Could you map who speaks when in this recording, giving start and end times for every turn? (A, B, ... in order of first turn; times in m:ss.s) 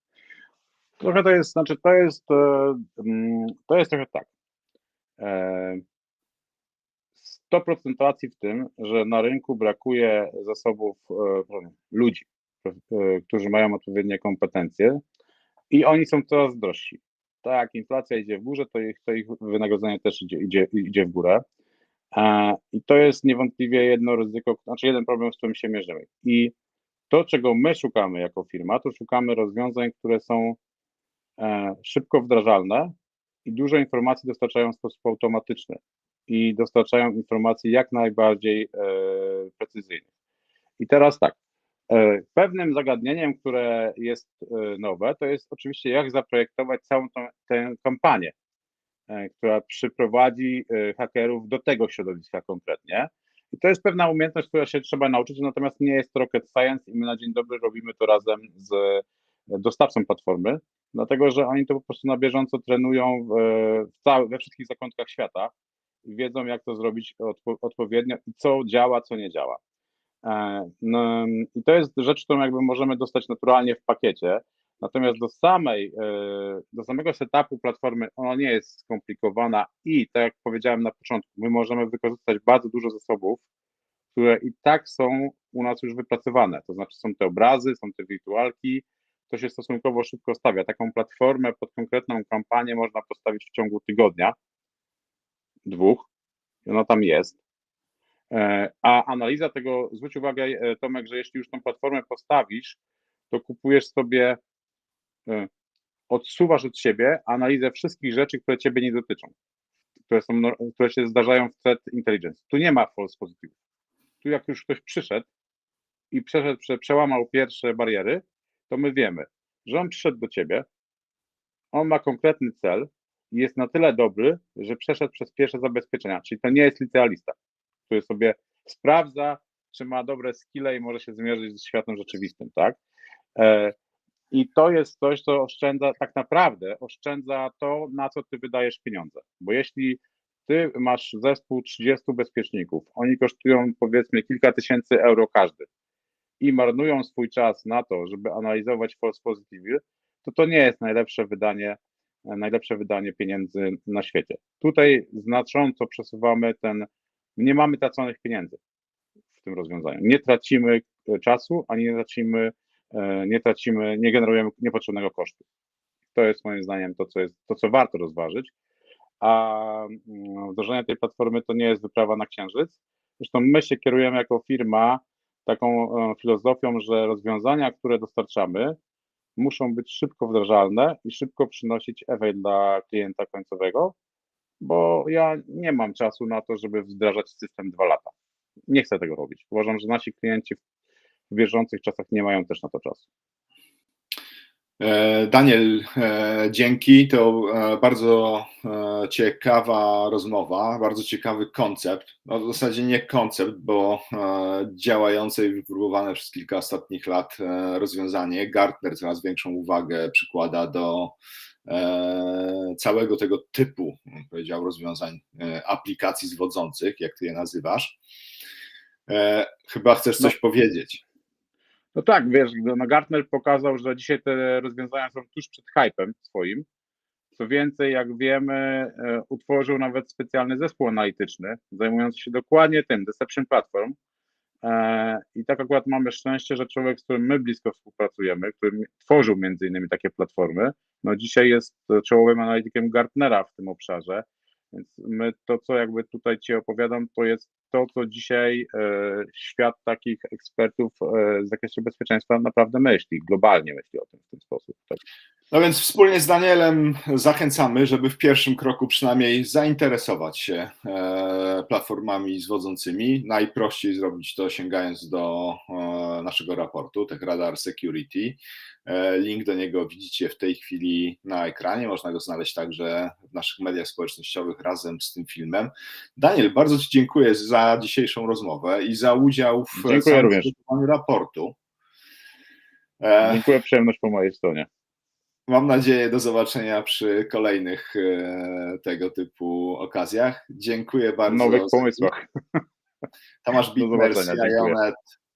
0:01.0-0:04.3 A
0:05.2-0:05.8 A
0:07.2-0:15.0 A
0:15.7-0:21.4 A
0:22.1-0:26.5 A
0:27.1-0:30.6 A
0:31.4-0:32.9 A
0:33.4-0:40.1 A
0:40.8-0:41.4 A
0:41.9-0:48.3 A
0:49.1-1:05.5 A
1:06.0-1:09.6 A
1:10.2-1:23.4 A
1:24.1-1:34.4 A
1:35.6-1:36.1 A
1:36.7-1:37.4 A
1:38.3-1:42.8 A
1:43.3-1:44.4 A
1:46.1-1:49.3 A
1:50.1-1:53.5 A
1:54.2-1:55.3 A
1:56.1-2:00.7 A
2:01.7-2:07.4 A
2:07.9-2:12.8 A
2:13.4-2:13.8 A
2:14.3-2:25.7 A
2:26.4-2:38.6 A
2:39.4-2:45.4 A
2:46.1-2:48.5 A
2:49.2-2:58.8 A
2:59.4-3:04.0 A
3:04.6-3:08.1 A
3:08.7-3:10.6 A
3:11.3-3:13.0 A
3:14.8-3:38.0 B
3:39.1-3:41.0 B
3:42.0-3:46.6 A
3:47.3-3:54.0 A
3:54.6-4:15.0 A
4:15.5-4:41.6 B
4:39.7-4:40.5 A
4:43.0-4:43.4 B
4:43.2-4:44.7 A
4:45.5-4:52.1 B
4:51.3-4:52.6 A
4:53.4-4:55.0 B
4:53.8-4:54.8 A